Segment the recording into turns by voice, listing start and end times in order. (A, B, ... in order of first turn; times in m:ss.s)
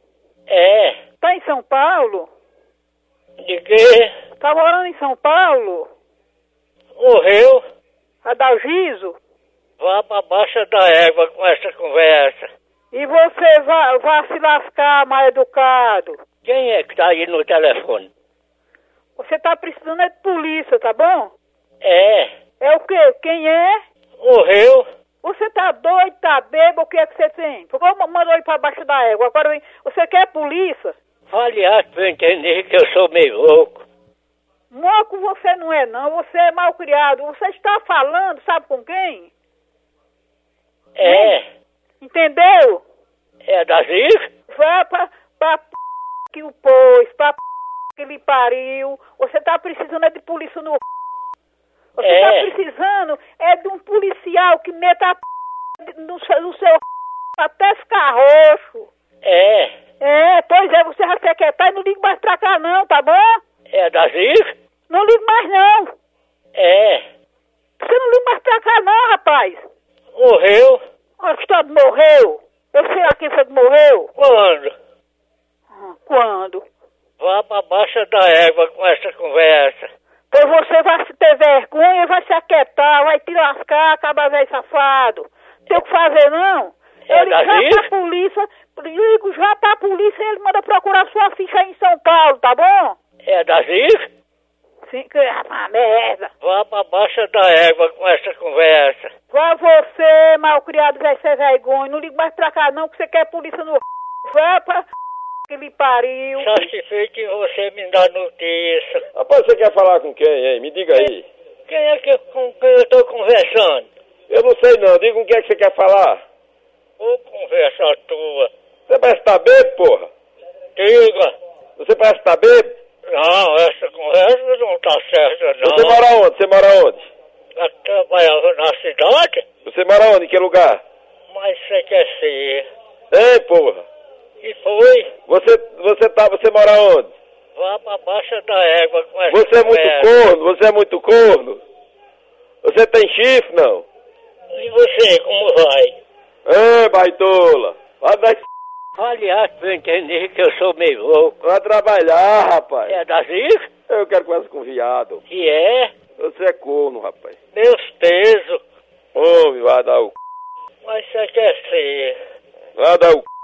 0:00.5-0:01.0 A
0:01.2-0:02.3 B
0:03.4-0:04.1 A
0:04.4-0:05.9 B
0:07.0-0:07.6 A
0:08.2-0:09.2 B
0:09.8-0:12.5 A
0:12.9-0:16.2 B
0:16.4-0:18.1 A
0:19.2-0:21.3 B
0:21.8-0:22.3 A
0:22.6-0:23.8 B
0:24.2-0:24.8 A
0:25.2-0:31.0 B
0:31.3-0:33.8 A
0:34.7-0:39.3 B
0:41.0-0:41.4 A
0:41.0-0:41.4 B
0:42.0-0:42.8 B
0:43.5-0:44.3 A
0:44.5-0:45.7 B
0:46.3-0:47.4 B
0:48.0-0:50.8 B
0:52.0-0:55.2 B
0:52.0-0:52.5 A
0:55.8-0:56.8 B
0:57.4-0:58.9 B
0:59.2-0:59.7 A
1:00.0-1:03.4 B
1:03.7-1:04.5 A
1:04.9-1:05.9 B
1:06.6-1:07.0 A
1:07.8-1:09.7 B
1:10.2-1:10.8 A
1:11.2-1:14.1 B
1:14.2-1:14.7 A
1:15.7-1:16.6 B
1:17.2-1:19.9 A
1:20.3-1:33.0 B
1:27.1-1:27.9 A
1:33.2-1:34.0 A
1:34.9-1:36.3 B
1:36.4-1:39.1 A
1:39.3-1:44.9 B
1:45.5-1:46.7 B
1:46.4-1:49.0 A
1:49.2-1:51.2 C
1:51.7-1:53.9 A
1:54.3-1:56.2 C
1:57.0-1:58.5 A
1:58.9-2:00.1 C
2:00.8-2:01.3 A
2:01.8-2:02.7 C
2:03.1-2:06.0 A
2:05.6-2:07.0 C
2:07.6-2:09.4 A
2:09.7-2:10.8 C
2:11.3-2:12.7 A
2:13.1-2:13.8 C
2:14.4-2:15.1 A
2:15.3-2:17.1 C
2:17.6-2:20.1 A
2:19.3-2:21.6 C
2:22.6-2:23.8 C
2:24.5-2:26.0 A
2:26.5-2:28.4 C
2:29.0-2:31.4 A
2:31.4-2:33.0 C
2:32.9-2:33.7 A
2:33.9-2:35.2 C
2:35.3-2:35.9 A
2:36.2-2:37.3 C
2:37.5-2:38.6 A
2:39.2-2:40.1 C
2:40.8-2:42.2 A
2:42.8-2:43.3 C